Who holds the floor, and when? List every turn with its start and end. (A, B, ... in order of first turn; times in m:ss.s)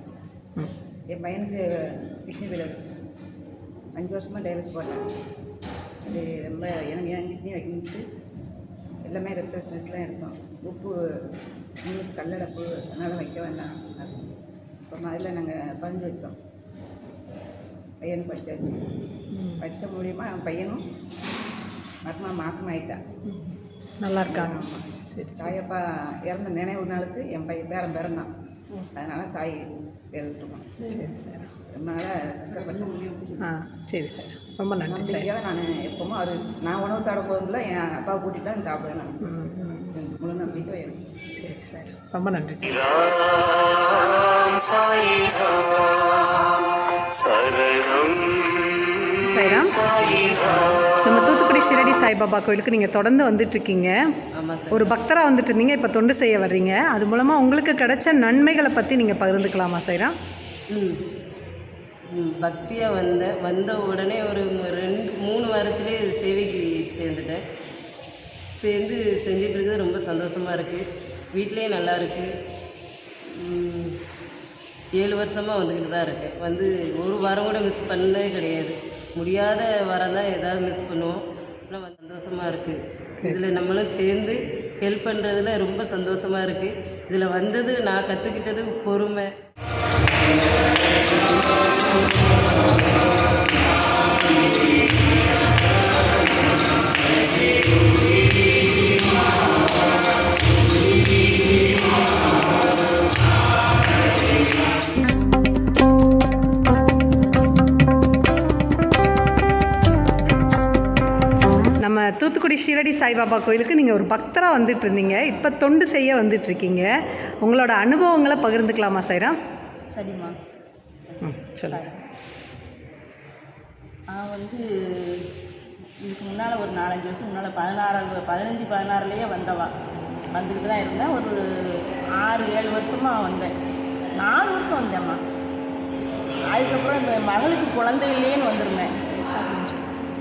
0:01.1-0:02.8 A
0:04.0-0:05.1 A
0:06.0-0:08.0 A
0:09.0-0:14.2 A
0:14.9-0:16.4 A
0:18.0-0:18.9 A
0:19.3-0:19.6 B
0:19.6-0:20.8 A
0:22.0-0:23.0 A
0:23.3-0:24.6 B
0:24.3-0:28.3 A
0:25.1-0:25.6 B
0:29.0-0:30.9 A
0:30.9-0:31.5 B
0:31.7-0:33.5 A
0:33.4-0:35.3 B
0:34.9-0:39.3 A
0:39.3-0:40.0 B
0:40.0-0:41.0 A
0:41.4-0:43.2 B
0:44.5-0:45.7 B
0:47.2-0:48.2 B
0:49.2-0:54.0 B
0:54.4-0:54.9 C
0:54.7-1:00.1 B
1:00.7-1:01.0 C
1:02.1-1:07.4 C
1:08.6-1:12.3 C
1:13.3-1:14.0 C
1:15.0-1:29.3 C
1:51.8-1:56.9 B
1:57.4-1:59.4 B
1:59.9-2:00.3 D
2:01.1-2:02.0 D
2:01.2-2:01.8 B
2:04.1-2:05.2 D
2:06.0-2:09.7 D
2:10.3-2:13.5 D
2:14.2-2:15.2 D
2:16.5-2:18.9 D
2:19.3-2:19.9 B